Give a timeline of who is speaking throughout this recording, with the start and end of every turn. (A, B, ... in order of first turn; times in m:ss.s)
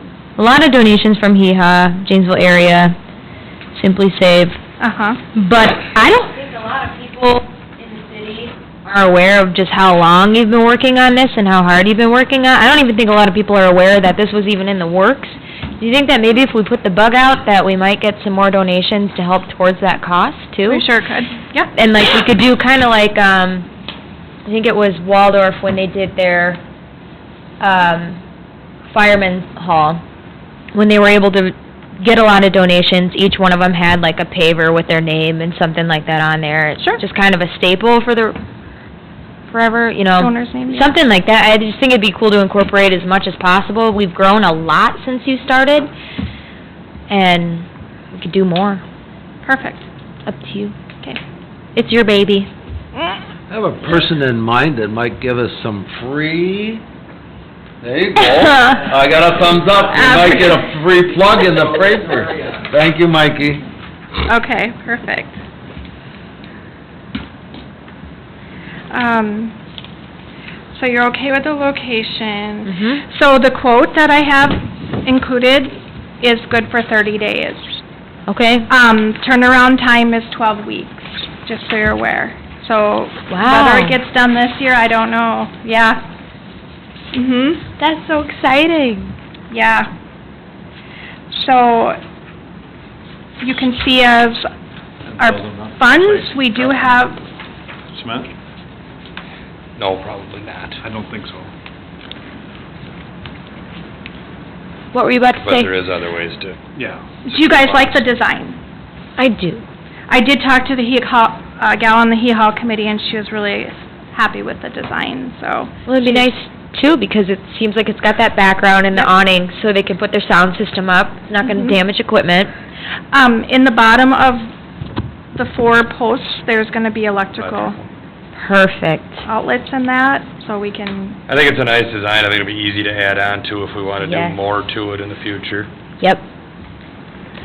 0:00.4-0:02.9 A
0:03.7-0:04.6 A
0:04.8-0:05.2 B
0:05.3-0:20.9 A
0:20.7-0:21.7 B
0:21.7-0:23.6 A
0:24.4-0:26.6 A
0:27.6-0:28.2 A
0:28.9-0:30.0 A
0:30.7-0:38.4 A
0:39.5-0:45.9 A
0:40.2-0:40.9 B
0:47.1-0:48.8 A
0:49.4-0:49.8 B
0:50.2-0:50.7 A
0:51.7-0:52.5 A
0:53.5-0:56.8 C
0:57.8-1:03.6 C
0:58.3-0:58.8 A
0:59.9-1:00.6 B
1:04.2-1:05.4 B
1:08.9-1:09.5 B
1:10.7-1:17.8 B
1:12.6-1:13.0 A
1:18.3-1:18.7 A
1:18.7-1:26.0 B
1:23.3-1:24.0 A
1:27.1-1:27.7 B
1:27.8-1:29.1 A
1:29.5-1:29.9 B
1:31.3-1:32.0 B
1:33.4-1:34.5 B
1:35.0-1:37.1 D
1:35.2-1:37.2 B
1:37.9-1:38.3 D
1:39.8-1:40.8 E
1:40.8-1:41.5 D
1:44.9-1:45.7 A
1:45.4-1:46.6 E
1:46.7-1:47.2 D
1:47.3-1:48.6 B
1:47.5-1:48.0 E
1:49.2-1:49.6 A
1:50.1-1:56.3 B
1:55.8-2:02.5 A
2:01.4-2:01.8 B
2:03.1-2:04.5 B
2:05.3-2:07.8 B
2:07.4-2:07.9 E
2:08.4-2:09.2 A
2:09.2-2:11.2 B
2:11.3-2:15.7 E
2:14.0-2:14.4 A